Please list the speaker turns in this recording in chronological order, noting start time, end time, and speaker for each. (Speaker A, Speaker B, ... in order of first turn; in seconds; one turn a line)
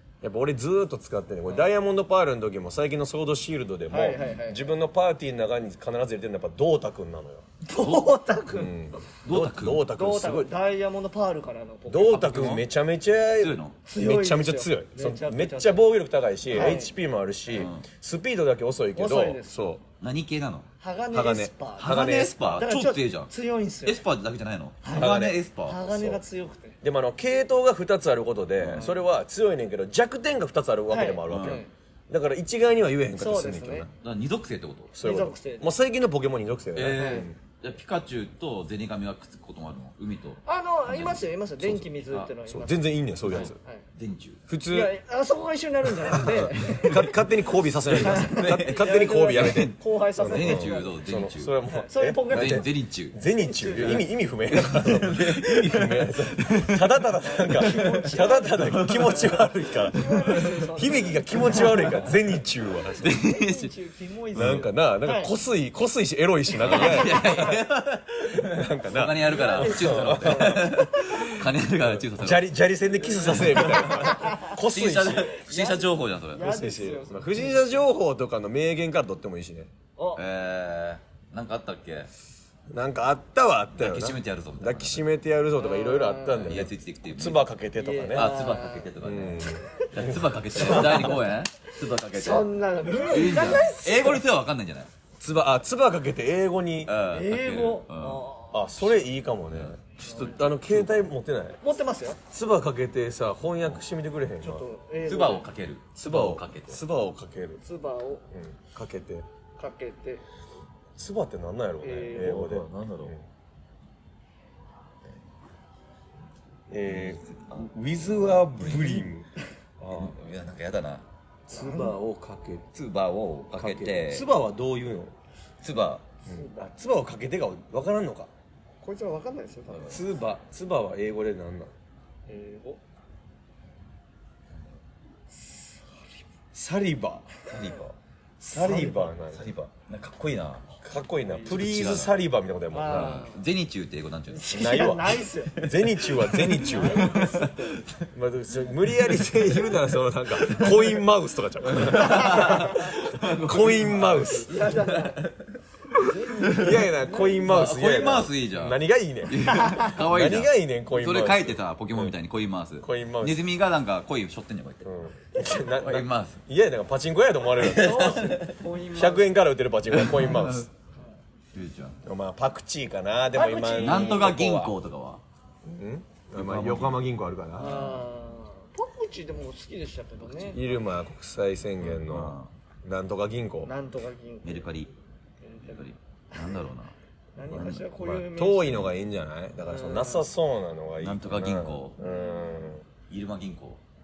Speaker A: 0.2-7.5
Speaker B: 3.9-4.7
Speaker B: 7.7-8.7
Speaker C: 7.8-8.1
Speaker A: 8.5-10.5
Speaker C: 9.2-9.9
Speaker B: 9.9-12.6
Speaker A: 11.9-19.8
Speaker C: 12.2-12.6
Speaker C: 13.4-13.8
Speaker B: 13.8-15.8
Speaker B: 16.5-16.9
Speaker C: 17.5-17.9
Speaker B: 18.9-19.6
Speaker C: 20.0-20.7
Speaker B: 20.8-22.1
Speaker A: 21.1-22.6
Speaker C: 21.8-23.3
Speaker B: 22.6-24.0
Speaker C: 23.8-25.8
Speaker B: 24.8-26.8
Speaker A: 24.9-26.2
Speaker A: 26.8-33.9
Speaker C: 28.6-28.9
Speaker B: 30.9-31.7
Speaker C: 31.3-31.6
Speaker B: 33.2-33.9
Speaker C: 34.0-35.0
Speaker A: 34.9-37.4
Speaker B: 35.0-35.7
Speaker C: 36.8-42.3
Speaker B: 36.9-37.3
Speaker B: 40.5-43.8
Speaker A: 42.5-43.5
Speaker C: 43.3-44.4
Speaker A: 44.5-44.9
Speaker B: 44.7-47.2
Speaker A: 46.1-63.2
Speaker C: 47.9-51.5
Speaker B: 48.0-51.0
Speaker B: 51.7-52.7
Speaker C: 52.3-53.2
Speaker B: 53.4-54.0
Speaker C: 53.8-56.9
Speaker B: 57.2-59.3
Speaker C: 57.5-59.5
Speaker B: 59.9-62.1
Speaker C: 63.0-63.7
Speaker B: 63.0-65.3
Speaker C: 64.3-64.6
Speaker A: 64.3-67.6
Speaker C: 66.6-72.5
Speaker B: 66.6-67.5
Speaker A: 68.3-75.3
Speaker B: 69.3-70.9
Speaker C: 73.1-76.5
Speaker B: 73.2-74.5
Speaker B: 75.3-77.8
Speaker A: 76.4-79.7
Speaker B: 80.0-80.2
Speaker C: 80.2-82.1
Speaker A: 82.7-88.3
Speaker C: 83.8-85.0
Speaker B: 85.6-86.6
Speaker C: 86.5-87.5
Speaker B: 87.8-88.9
Speaker C: 88.1-94.9
Speaker A: 89.0-91.2
Speaker B: 90.6-91.2
Speaker B: 92.1-94.2
Speaker A: 95.2-96.9
Speaker C: 96.9-98.2
Speaker B: 97.1-98.9
Speaker A: 98.5-101.6
Speaker B: 100.0-100.5
Speaker B: 101.6-102.2
Speaker A: 102.3-104.7
Speaker B: 104.4-105.5
Speaker C: 105.0-106.8
Speaker A: 106.0-107.6
Speaker B: 107.6-108.3
Speaker A: 108.3-109.3
Speaker B: 109.6-110.2
Speaker A: 111.0-113.2
Speaker B: 111.8-112.5
Speaker C: 112.2-113.1
Speaker A: 116.7-119.3
Speaker C: 116.9-117.7
Speaker C: 118.2-119.1
Speaker A: 119.8-120.2
Speaker C: 119.9-121.0
Speaker A: 121.5-122.7
Speaker B: 121.5-122.0
Speaker C: 122.7-124.3
Speaker A: 123.5-125.1
Speaker C: 125.6-126.1
Speaker B: 126.3-126.6
Speaker A: 126.3-128.3
Speaker B: 128.8-130.0
Speaker C: 129.7-130.0
Speaker A: 129.9-131.7
Speaker B: 132.3-132.8
Speaker A: 136.5-137.3
Speaker C: 137.5-137.9
Speaker B: 138.4-139.1
Speaker A: 138.5-139.5
Speaker C: 139.3-140.7
Speaker A: 140.8-143.3
Speaker B: 141.3-141.6
Speaker C: 141.4-142.2
Speaker B: 142.7-143.4
Speaker C: 142.8-144.9
Speaker B: 144.3-145.6
Speaker A: 144.5-147.3
Speaker C: 145.6-148.1
Speaker B: 146.6-147.8
Speaker A: 148.1-154.6
Speaker C: 149.2-149.8
Speaker C: 150.4-150.9
Speaker C: 151.7-156.8
Speaker B: 152.2-152.7
Speaker B: 154.4-155.2
Speaker B: 156.0-157.6
Speaker A: 156.4-162.1
Speaker C: 157.4-164.9
Speaker B: 159.5-159.9
Speaker A: 162.8-163.4
Speaker A: 164.8-168.2
Speaker C: 165.8-166.4
Speaker C: 167.6-168.6
Speaker B: 167.6-169.3
Speaker A: 168.9-170.7
Speaker C: 169.9-170.7
Speaker C: 171.5-172.0
Speaker A: 172.0-174.7
Speaker B: 173.3-174.3
Speaker C: 173.8-175.2
Speaker A: 175.7-177.9
Speaker C: 176.3-177.0
Speaker C: 177.6-178.0
Speaker B: 177.6-180.6
Speaker C: 180.2-180.6
Speaker A: 180.5-183.7
Speaker C: 181.8-182.5
Speaker B: 183.7-184.7
Speaker C: 184.4-184.9
Speaker B: 185.4-185.8
Speaker C: 185.7-186.9
Speaker B: 187.4-188.9
Speaker C: 187.5-188.1
Speaker A: 187.5-192.8
Speaker B: 189.7-190.2
Speaker C: 191.0-192.0
Speaker B: 192.0-192.7
Speaker C: 193.1-193.8